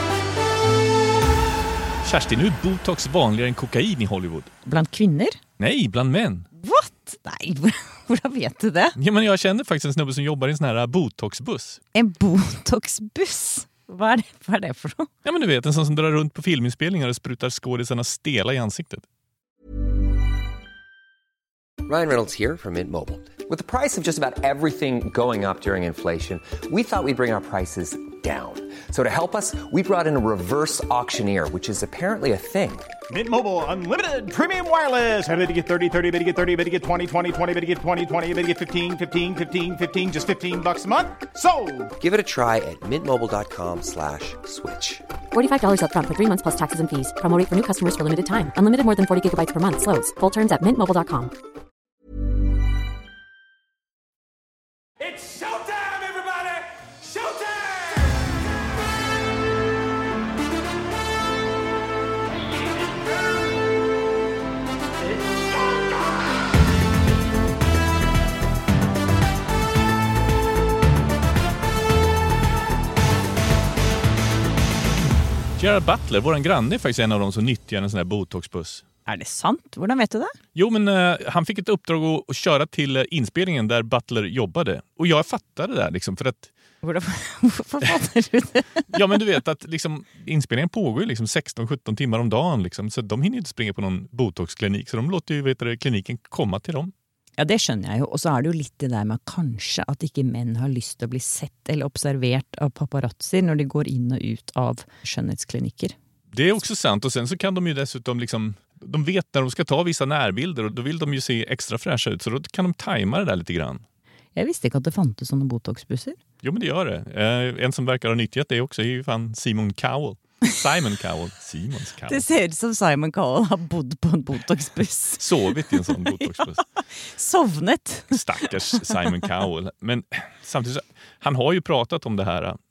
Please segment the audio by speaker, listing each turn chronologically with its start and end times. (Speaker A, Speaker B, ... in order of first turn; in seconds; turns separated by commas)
Speaker A: 2.0-4.5, Speaker B: 4.7-5.3, Speaker A: 5.6-6.5, Speaker B: 6.6-9.0, Speaker A: 9.0-11.8, Speaker B: 11.9-15.1, Speaker A: 15.2-19.1, Speaker C: 21.8-32.9, Speaker D: 33.1-41.9, Speaker C: 42.0-45.1, Speaker E: 45.3-51.3, Speaker A: 75.6-78.8, Speaker B: 79.1-80.3, Speaker A: 80.5-86.5, Speaker B: 86.8-88.8, Speaker A: 88.9-96.9, Speaker B: 97.4-106.0, Speaker A: 106.3-113.8, Speaker B: 114.3-116.2, Speaker A: 116.4-122.3, Speaker B: 122.1-126.4, Speaker A: 125.2-126.6, Speaker B: 127.2-128.6, Speaker A: 128.1-132.6